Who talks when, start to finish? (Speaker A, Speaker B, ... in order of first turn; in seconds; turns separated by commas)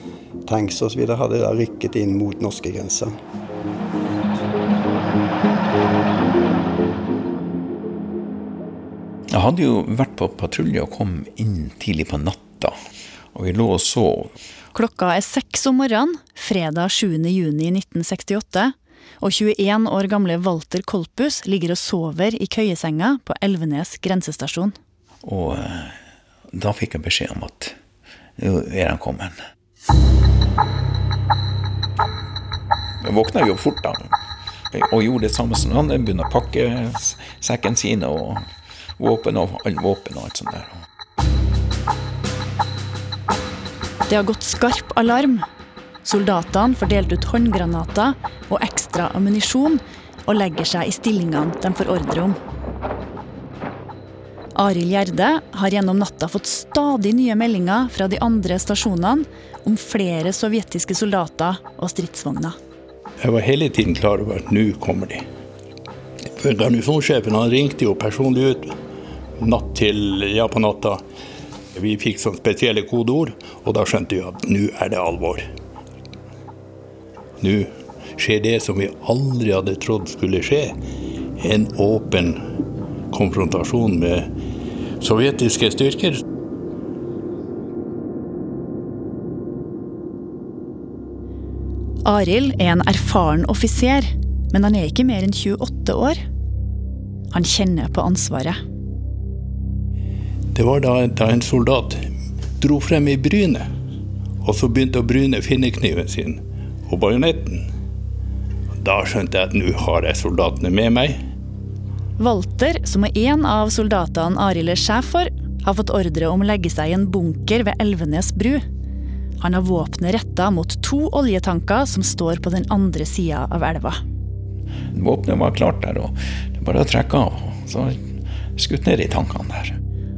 Speaker A: 0.5-3.1, Speaker B: 9.3-12.8, Speaker B: 13.3-14.3, Speaker C: 14.7-24.8, Speaker B: 25.2-26.0, Speaker B: 26.5-27.8, Speaker B: 28.4-29.4, Speaker B: 33.0-34.1, Speaker B: 34.7-38.5, Speaker B: 39.0-40.8, Speaker C: 44.1-45.5, Speaker C: 46.0-52.4, Speaker C: 54.5-62.6, Speaker D: 63.2-65.2, Speaker D: 66.3-68.7, Speaker D: 69.4-71.0, Speaker D: 71.7-75.5, Speaker D: 77.4-80.8, Speaker D: 81.4-82.4, Speaker D: 83.1-84.3, Speaker D: 85.0-86.2, Speaker C: 92.0-96.2, Speaker C: 97.3-98.6, Speaker D: 100.5-102.0, Speaker D: 102.6-103.7, Speaker D: 104.4-107.6, Speaker D: 108.8-111.2, Speaker C: 112.2-118.6, Speaker C: 119.4-124.0, Speaker B: 124.9-129.8